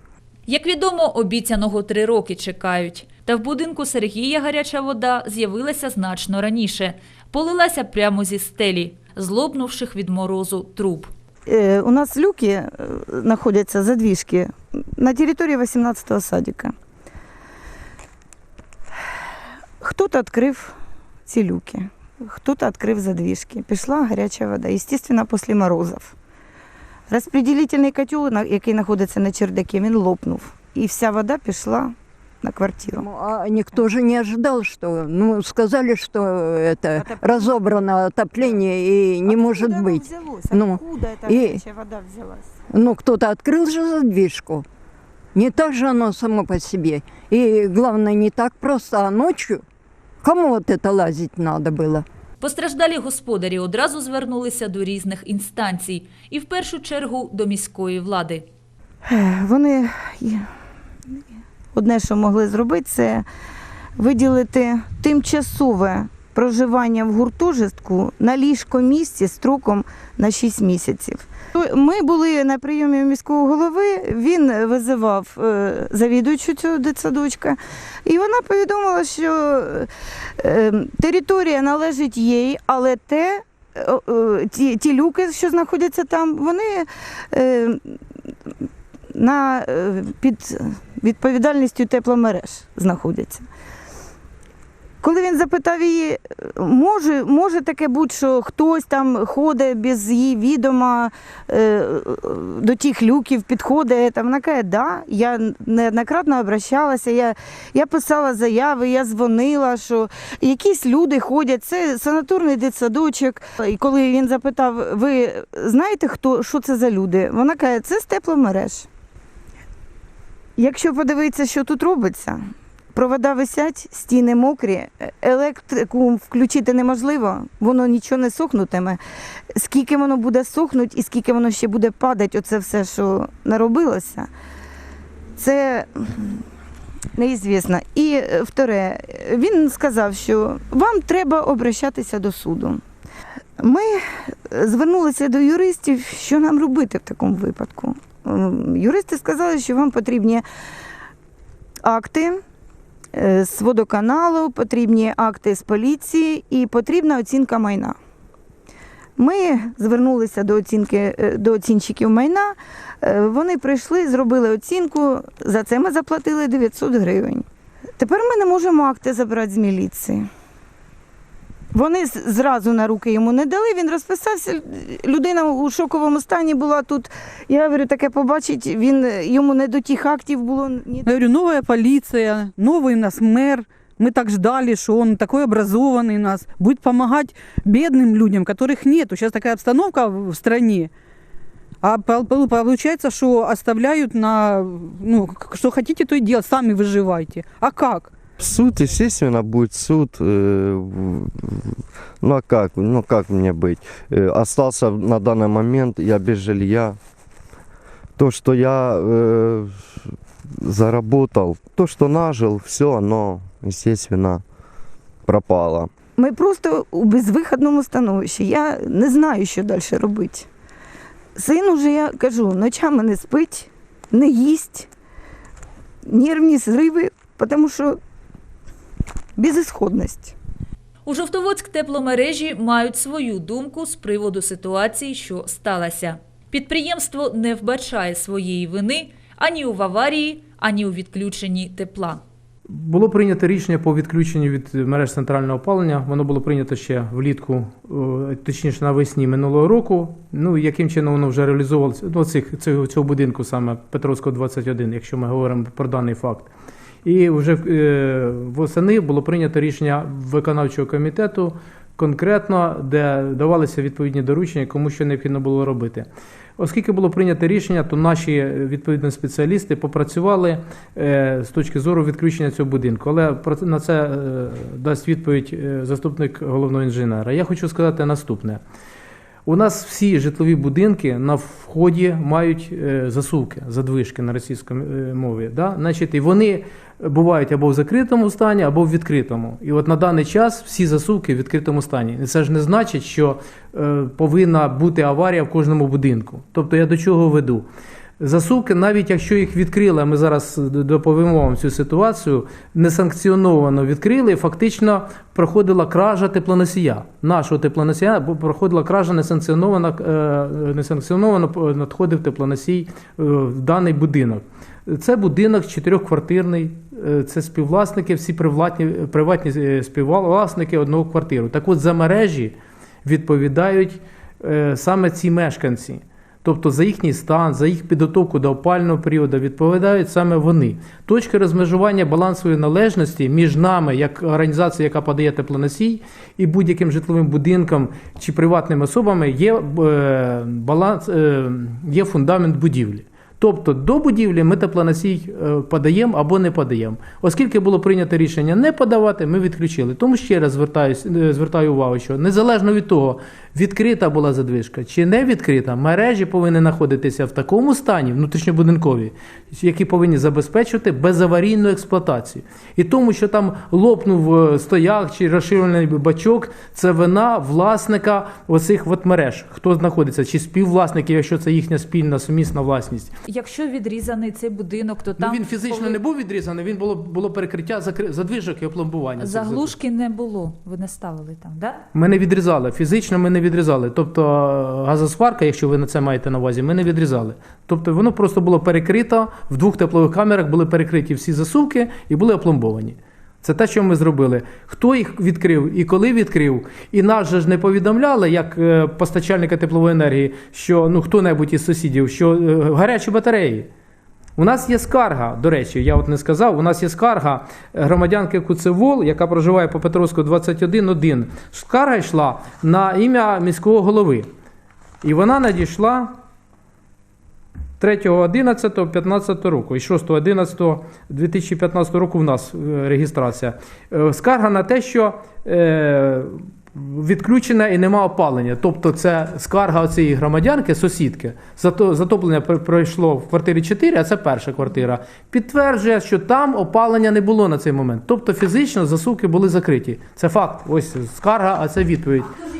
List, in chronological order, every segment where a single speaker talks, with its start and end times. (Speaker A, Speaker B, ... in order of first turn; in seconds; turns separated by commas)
Speaker A: 0.5-11.1, Speaker B: 11.5-16.7, Speaker B: 19.8-20.7, Speaker B: 21.3-26.1, Speaker B: 27.1-33.0, Speaker C: 33.0-41.6, Speaker B: 37.0-37.6, Speaker B: 39.2-42.5, Speaker C: 42.7-44.6, Speaker C: 45.3-49.6, Speaker C: 50.2-52.0, Speaker A: 52.4-58.4, Speaker B: 59.0-60.4, Speaker B: 61.7-63.2, Speaker B: 64.0-79.9, Speaker B: 80.4-88.0, Speaker B: 89.1-93.4, Speaker B: 95.0-118.9, Speaker B: 120.6-122.4, Speaker B: 122.9-129.0, Speaker B: 129.6-134.3, Speaker B: 135.3-136.4, Speaker B: 137.2-142.8, Speaker B: 143.6-150.4, Speaker B: 151.8-152.4, Speaker B: 153.1-157.9, Speaker B: 159.2-167.4, Speaker B: 168.0-170.2, Speaker B: 171.7-181.1, Speaker D: 181.1-190.9, Speaker D: 191.8-198.1, Speaker E: 198.4-207.0, Speaker E: 208.2-209.8, Speaker E: 210.6-214.4, Speaker E: 215.2-215.9, Speaker B: 216.2-220.5, Speaker B: 221.3-224.9, Speaker B: 226.1-228.0, Speaker B: 229.4-230.3, Speaker A: 231.0-242.2, Speaker F: 242.7-256.5, Speaker F: 257.0-278.6, Speaker F: 279.4-297.6, Speaker F: 298.2-373.1, Speaker A: 373.3-376.0, Speaker F: 375.2-379.7, Speaker A: 379.2-381.8, Speaker F: 381.9-403.7, Speaker F: 404.4-414.3, Speaker F: 415.0-416.1, Speaker F: 417.8-442.4